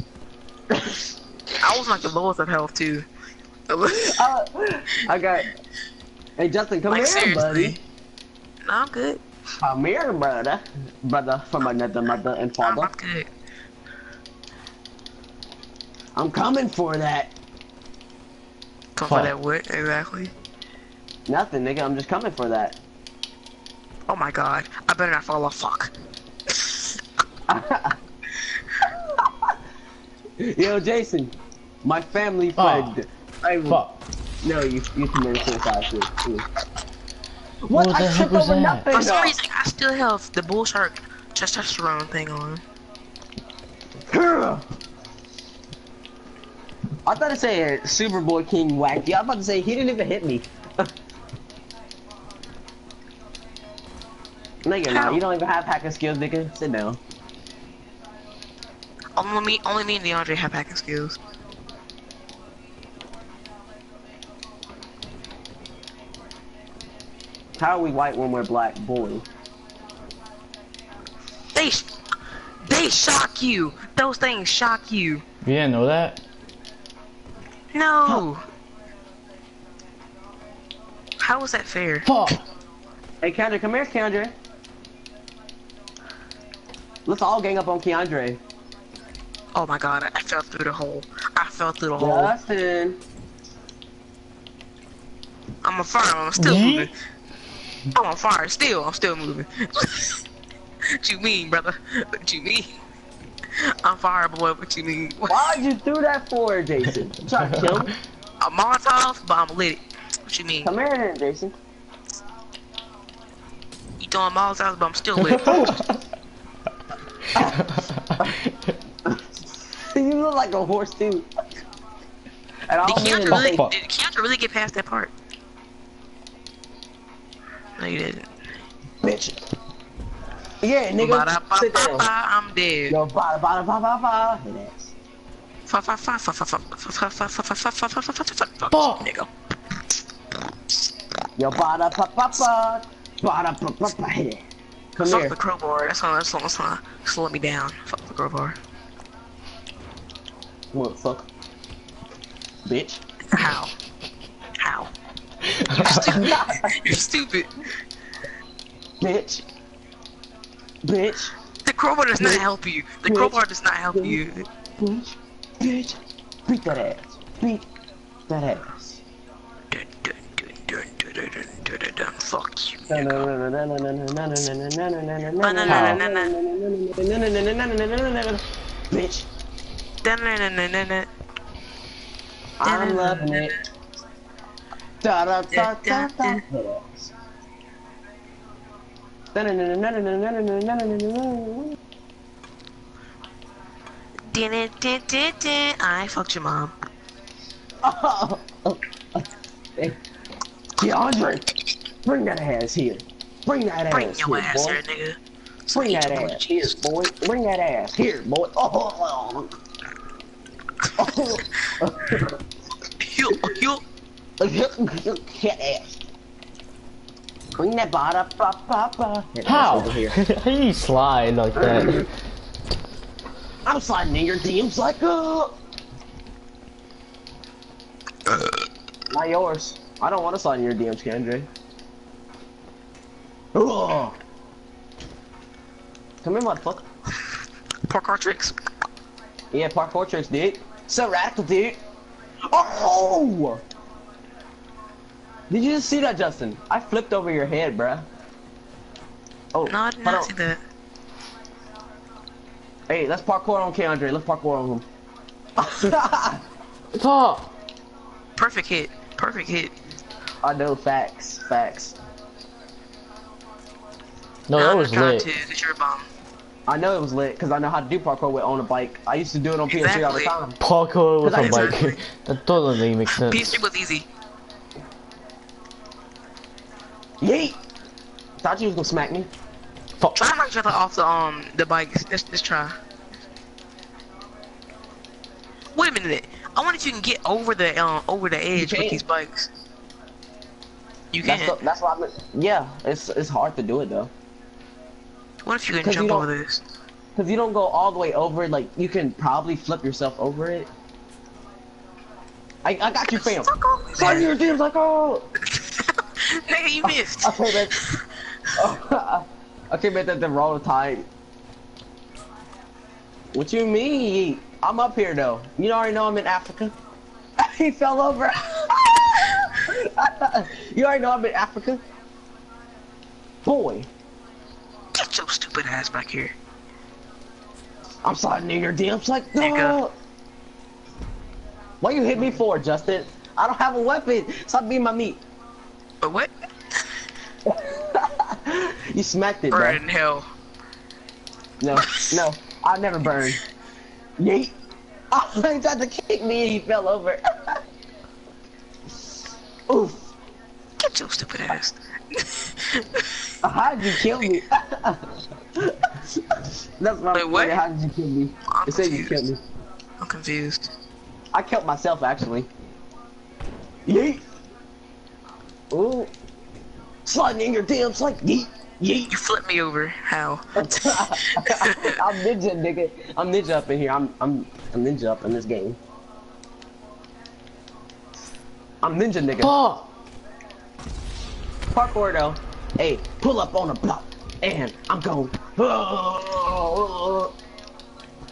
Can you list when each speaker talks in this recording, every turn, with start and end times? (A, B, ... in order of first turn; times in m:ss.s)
0:00.7-0:01.0 A
0:01.6-0:03.0 B
0:03.7-0:04.2 B
0:03.9-0:05.5 A
0:06.4-0:07.8 A
0:06.9-0:07.8 B
0:08.6-0:09.2 B
0:09.6-0:12.9 A
0:12.6-0:13.3 B
0:16.2-0:17.3 A
0:19.0-0:20.3 B
0:19.0-0:19.3 C
0:21.3-0:22.8 A
0:24.1-0:25.9 B
0:26.5-0:26.8 B
0:27.5-0:28.0 A
0:29.2-0:29.6 A
0:30.4-0:33.8 A
0:32.6-0:32.9 C
0:33.6-0:34.0 C
0:34.4-0:36.4 A
0:37.6-0:39.3 A
0:37.7-0:38.8 C
0:38.9-0:42.6 B
0:44.1-0:44.6 A
0:47.0-0:50.9 A
0:54.6-0:57.0 A
0:54.9-0:55.2 B
0:59.2-1:01.2 B
1:07.6-1:09.2 A
1:11.5-1:11.8 B
1:12.6-1:15.2 B
1:15.4-1:16.2 C
1:17.7-1:18.4 B
1:21.2-1:22.1 B
1:22.0-1:22.4 C
1:23.2-1:24.3 A
1:27.0-1:28.4 A
1:29.5-1:32.3 B
1:32.0-1:33.0 A
1:35.6-1:36.9 B
1:36.4-1:36.9 C
1:37.9-1:40.2 B
1:40.9-1:42.7 B
1:43.6-1:45.4 B
1:45.3-1:47.9 A
1:47.6-1:47.9 C
1:48.4-1:50.7 B
1:50.6-1:51.5 A
1:54.0-1:55.6 B
1:55.3-1:55.7 C
1:55.4-1:55.8 A
1:57.3-1:58.4 A
1:57.4-1:58.7 C
1:59.8-2:01.3 A
2:02.7-2:03.6 A
2:02.8-2:05.1 B
2:03.2-2:03.7 C
2:07.8-2:08.3 B
2:09.0-2:09.4 A
2:10.6-2:12.1 A
2:11.0-2:13.0 B
2:12.9-2:14.9 A
2:15.7-2:19.3 B
2:18.7-2:19.1 C
2:21.4-2:24.4 A
2:24.9-2:25.4 A
2:25.0-2:28.6 B
2:30.7-2:31.3 A
2:32.6-2:33.0 A
2:33.3-2:33.7 B
2:34.6-2:34.9 B
2:35.4-2:36.3 C
2:35.8-2:37.5 B
2:35.9-2:36.8 A
2:39.0-2:39.4 A
2:40.8-2:41.3 A
2:41.6-2:44.5 B
2:42.2-2:42.4 A
2:43.0-2:43.4 A
2:43.9-2:44.2 A
2:44.8-2:47.6 A
2:48.3-2:48.9 A
2:49.7-2:53.3 B
2:52.9-2:59.3 A
2:55.4-2:56.3 B
2:55.6-2:56.0 C
3:00.0-3:01.1 B
3:02.6-3:03.5 A
3:02.6-3:03.6 B
3:05.0-3:07.1 A
3:05.5-3:06.4 B
3:09.3-3:11.8 A
3:14.3-3:16.7 B
3:17.8-3:19.2 A
3:20.8-3:21.5 A
3:22.0-3:24.8 A
3:23.9-3:26.8 B
3:25.7-3:29.5 A
3:31.0-3:32.4 A
3:33.0-3:33.8 B
3:34.4-3:36.0 A
3:37.6-3:40.2 A
3:39.4-3:42.1 C
3:41.6-3:42.0 A
3:43.6-3:45.6 A
3:49.1-3:51.5 A
3:53.5-3:54.2 A
3:56.2-3:56.8 A
3:57.9-3:58.5 B
3:59.5-4:01.8 A
4:02.5-4:03.6 A
4:05.5-4:08.1 A
4:09.5-4:10.3 A
4:09.7-4:10.6 B
4:12.9-4:14.8 A
4:15.6-4:16.4 A
4:16.9-4:17.5 C
4:18.4-4:19.7 B
4:20.4-4:21.9 A
4:24.5-4:25.3 C
4:24.6-4:26.1 B
4:26.7-4:30.6 A
4:29.7-4:30.3 B
4:30.6-4:33.6 C
4:31.2-4:31.8 A
4:31.3-4:31.9 B
4:33.1-4:34.0 B
4:37.2-4:37.6 A
4:38.4-4:39.3 A
4:40.0-4:40.3 C
4:40.2-4:42.8 B
4:45.7-4:49.5 B
4:48.5-4:49.0 A
4:51.1-4:51.6 B
4:51.2-4:54.1 A
4:55.4-4:56.6 B
4:55.8-4:56.3 A
4:57.2-5:00.7 A
5:02.6-5:05.3 A
5:03.0-5:04.3 B
5:05.5-5:08.0 B
5:06.8-5:07.8 A
5:08.6-5:11.1 A
5:13.3-5:16.7 A
5:17.4-5:21.8 A
5:23.4-5:23.9 A
5:25.0-5:26.3 B
5:28.0-5:29.9 A
5:29.4-5:29.8 B
5:31.8-5:35.2 A
5:36.0-5:36.3 B
5:37.5-5:39.8 A
5:39.5-5:40.3 B
5:41.6-5:43.4 A
5:41.7-5:42.2 B
5:44.2-5:44.5 A
5:45.1-5:47.6 A
5:49.7-5:50.1 A
5:50.8-5:53.3 B
5:53.4-5:59.4 A
5:57.1-5:57.6 B
5:58.5-5:59.1 B
6:00.0-6:00.7 B
6:01.3-6:02.5 A
6:03.8-6:04.2 A
6:05.7-6:06.1 A
6:07.0-6:09.1 A
6:09.1-6:12.0 B
6:10.6-6:15.8 A
6:18.8-6:19.5 A
6:19.4-6:19.9 C
6:21.7-6:27.3 A